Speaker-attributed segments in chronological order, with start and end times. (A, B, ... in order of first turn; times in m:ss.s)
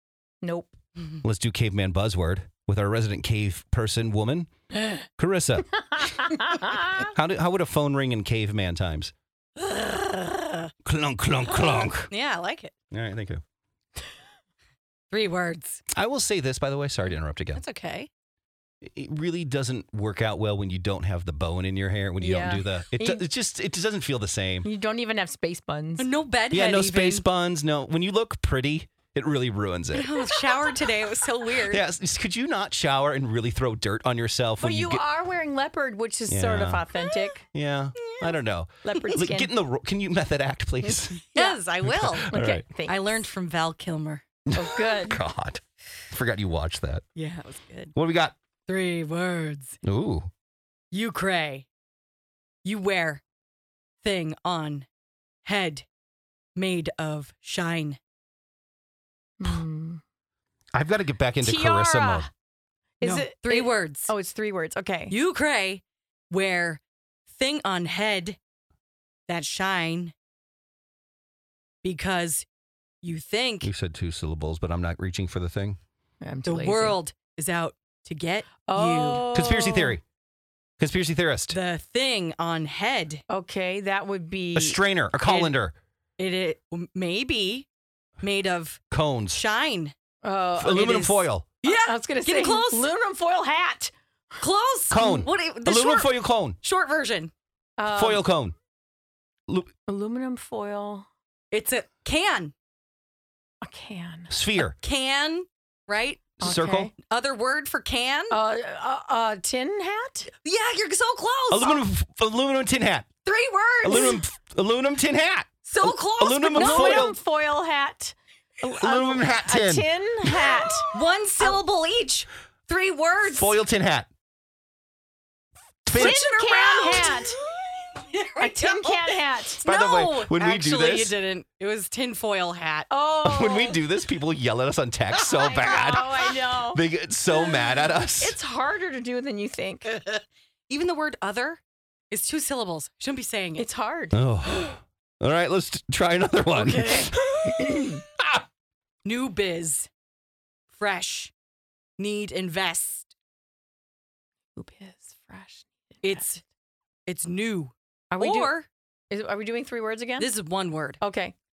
0:00.4-0:00.7 A
0:01.2-0:04.5 B
0:05.0-0:06.3 B
0:07.0-0:09.1 B
0:09.6-0:10.7 C
0:10.8-0:12.1 B
0:12.1-0:12.7 C
0:12.9-0:13.4 B
0:15.1-0:15.8 C
0:15.9-0:17.6 B
0:17.6-0:18.1 C
0:18.8-0:24.7 B
0:22.2-0:23.2 A
0:24.6-0:26.1 A
0:26.0-0:27.3 C
0:26.5-0:30.2 B
0:29.9-0:31.8 C
0:31.6-0:35.0 B
0:34.6-0:37.5 A
0:36.3-0:36.8 B
0:37.5-0:41.2 B
0:38.1-0:38.4 C
0:38.8-0:39.5 A
0:41.3-0:44.2 C
0:41.3-0:41.6 A
0:41.8-0:42.7 B
0:42.3-0:43.3 A
0:44.5-0:47.0 B
0:44.5-0:45.2 A
0:47.2-0:47.9 C
0:48.0-0:48.4 B
0:48.7-0:49.8 C
0:49.8-0:50.3 B
0:50.9-0:51.7 C
0:52.6-0:53.2 C
0:54.0-0:54.9 C
0:55.4-0:55.9 C
0:56.6-0:58.0 C
0:59.4-1:00.0 A
1:00.7-1:02.3 B
1:01.4-1:02.3 A
1:03.0-1:05.2 A
1:03.0-1:04.1 C
1:05.1-1:08.4 C
1:09.3-1:10.1 C
1:11.8-1:12.5 C
1:13.0-1:13.7 C
1:13.6-1:15.8 B
1:16.2-1:17.0 A
1:16.4-1:19.4 C
1:18.7-1:20.0 A
1:19.3-1:20.0 B
1:20.8-1:21.6 B
1:21.5-1:23.2 C
1:23.3-1:24.8 A
1:24.6-1:25.7 B
1:25.2-1:25.5 C
1:26.2-1:27.7 C
1:28.2-1:29.9 C
1:28.9-1:29.5 B
1:30.2-1:31.0 A
1:30.6-1:31.5 B
1:30.7-1:32.9 C
1:31.6-1:33.9 A
1:34.4-1:37.3 C
1:34.9-1:36.6 B
1:37.8-1:38.2 A
1:37.9-1:38.6 B
1:39.9-1:41.1 A
1:41.5-1:42.5 C
1:43.6-1:44.3 A
1:44.3-1:44.8 B
1:44.6-1:46.3 C
1:46.4-1:46.9 B
1:46.4-1:46.9 A
1:47.0-1:48.4 C
1:48.3-1:50.3 A
1:50.4-1:51.8 C
1:51.5-1:53.1 B
1:53.2-1:54.2 C
1:53.8-1:57.2 B
1:55.6-1:57.1 C
1:56.5-2:00.9 A
1:58.8-2:00.7 B
2:00.9-2:03.6 C
2:03.2-2:04.1 B
2:05.9-2:06.2 B
2:05.9-2:12.9 C
2:05.9-2:07.4 A
2:08.4-2:09.6 A
2:09.6-2:11.2 B
2:12.9-2:13.8 A
2:13.2-2:18.4 B
2:15.3-2:16.8 A
2:17.5-2:19.9 A
2:19.9-2:23.7 C
2:23.6-2:24.2 A
2:24.1-2:27.5 B
2:26.5-2:27.2 C
2:27.5-2:28.0 A
2:29.0-2:29.9 C
2:30.7-2:31.3 C
2:32.0-2:33.1 C
2:34.6-2:36.2 A
2:36.0-2:36.4 C
2:37.1-2:38.7 C
2:38.1-2:38.5 A
2:39.1-2:40.3 A
2:40.2-2:41.0 C
2:41.0-2:41.4 A